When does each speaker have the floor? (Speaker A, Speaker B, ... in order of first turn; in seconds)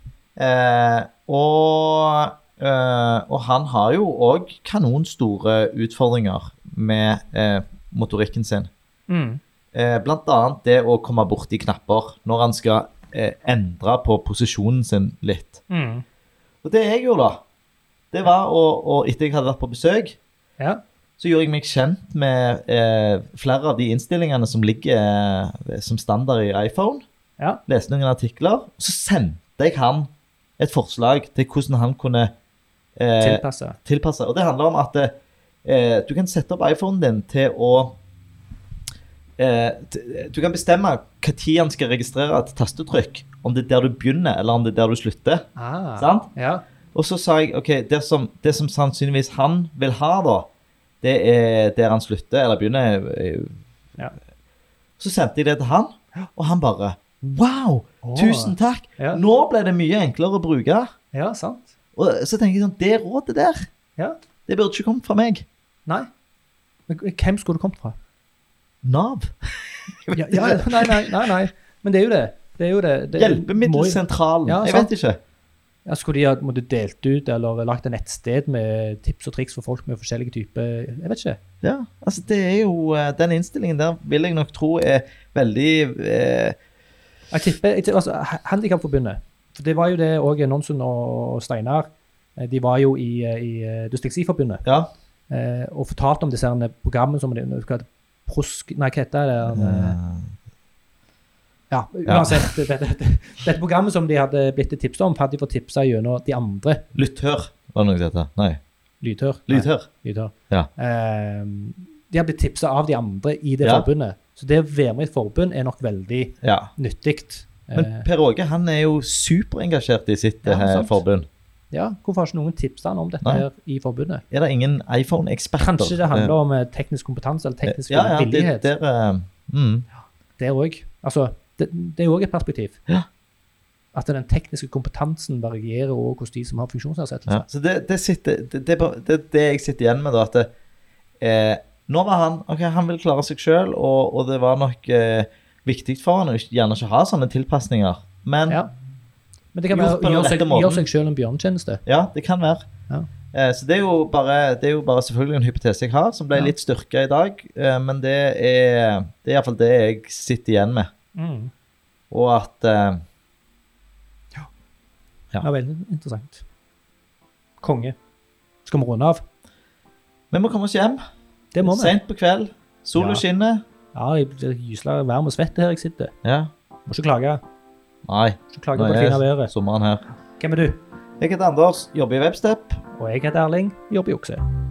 Speaker A: 0.4-8.7, 9.7-15.6, 16.6-17.4, 18.1-20.2, 21.2-27.0, 27.7-32.3, 33.0-35.1, 35.6-38.0, 39.4-45.5, 46.0-46.3, 46.9-50.5, 51.0-53.5, 55.0-60.9, 62.0-63.7, 64.5-65.5, 68.8-71.3, 73.2-75.2, 81.6-86.6, 94.7-94.9, 99.5-100.3, 102.1-102.5, 107.0-108.6, 109.5-109.9, 116.4-116.7, 117.7-121.3, 124.3-126.3, 127.7-129.9, 137.3-140.5, 141.2-148.6, 149.7-150.9, 151.9-152.7, 153.3-160.9, 162.1-163.0, 170.3-171.0, 171.6-173.6, 176.2-176.5, 178.1-180.1, 181.2-182.8
Speaker B: 9.1-9.4, 15.7-16.0, 33.2-33.8, 45.6-46.6, 58.0-59.2, 61.1-61.7, 66.9-68.0, 70.2-74.9, 75.9-81.4, 87.3-94.7, 95.3-100.0, 101.7-106.9, 109.0-118.1, 120.4-121.0, 121.7-124.2, 125.6-128.7, 130.4-132.8, 133.9-137.4, 149.6-151.8, 161.2-161.5, 165.4-166.4, 167.6-168.0, 168.7-169.2, 171.5-172.0, 173.0-173.2, 173.9-176.1, 176.9-177.4, 178.5-179.5, 180.4-180.8, 183.0-184.4